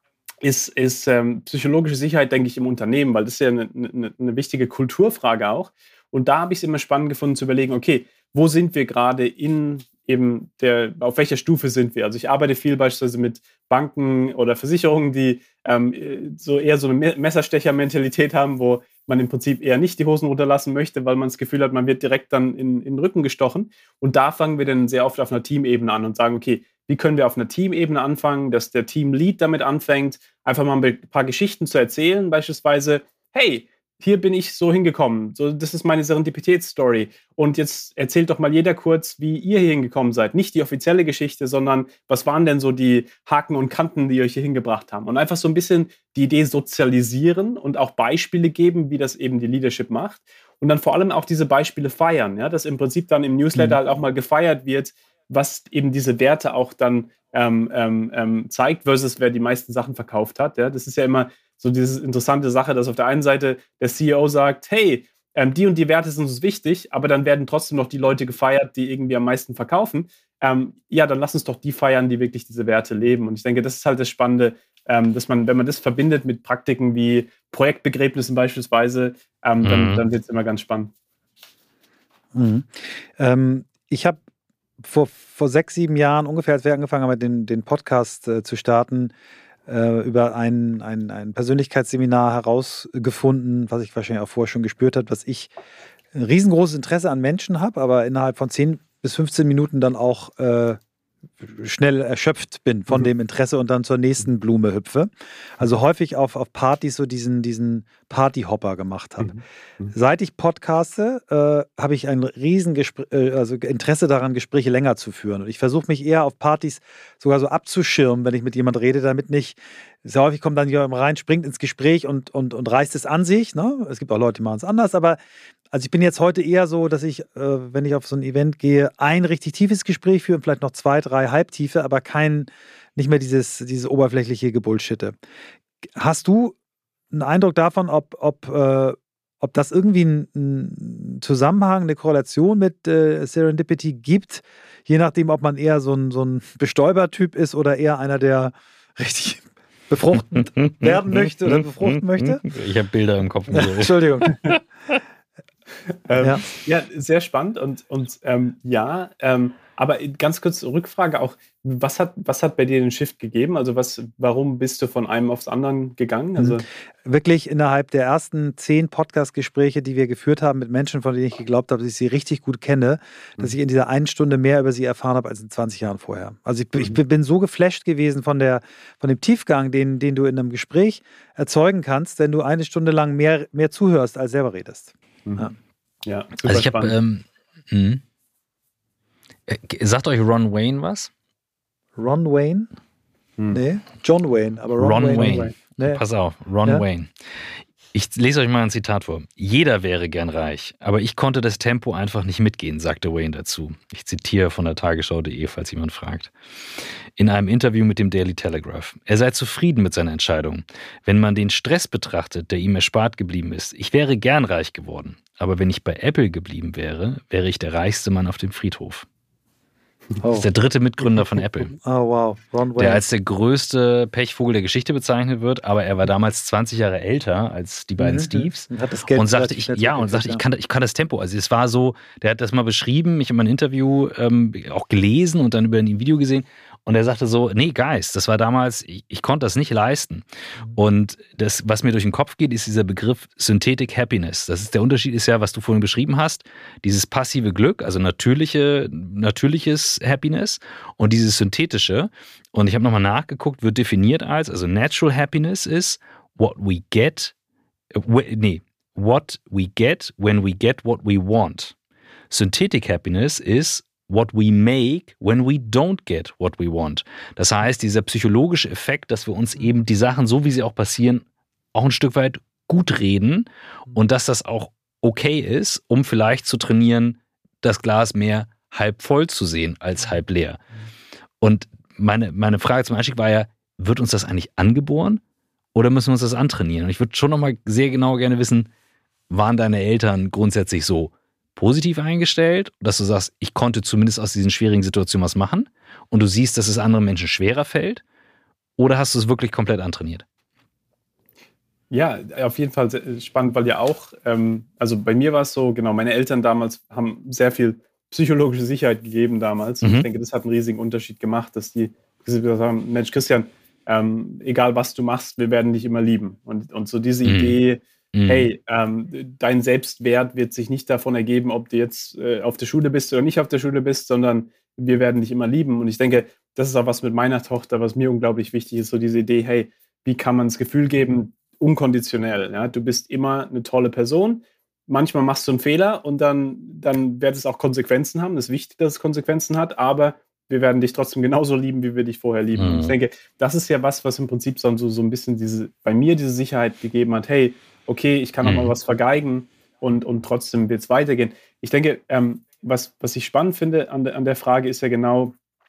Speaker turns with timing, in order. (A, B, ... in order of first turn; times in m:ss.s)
0:00.4-1:20.9 A
1:19.6-1:20.0 B
1:22.3-1:24.2 C
1:24.8-1:29.1 C
1:29.7-1:35.5 C
1:36.1-1:40.8 C
1:41.4-1:49.3 C
1:49.2-1:49.9 A
1:49.9-2:05.2 C
2:05.7-2:15.1 C
2:16.0-2:16.5 C
2:17.1-2:32.4 C
2:30.8-2:34.0 B
2:33.5-2:34.4 C
2:36.1-2:46.6 A
2:36.2-2:36.4 C
2:46.4-3:05.5 C
3:06.0-3:06.9 A
3:06.4-3:08.0 B
3:09.5-3:11.1 B
3:12.0-3:12.7 C
3:13.5-3:16.0 C
3:14.8-3:17.1 B
3:15.1-3:15.5 A
3:17.9-3:26.3 B
3:27.2-3:39.0 B
3:40.2-3:40.5 C
3:40.4-3:41.7 B
3:41.8-3:43.0 C
3:42.8-4:17.3 B
3:48.0-3:50.4 C
4:17.9-4:21.7 B
4:22.3-4:40.6 B
4:41.4-4:45.2 B
4:45.7-4:48.7 B
4:49.3-4:58.0 B
4:58.8-5:00.2 B
5:01.9-5:55.3 A
5:09.8-5:10.1 B
5:17.2-5:17.6 B
5:18.1-5:18.5 B
5:42.6-5:43.0 B
5:48.4-5:48.7 B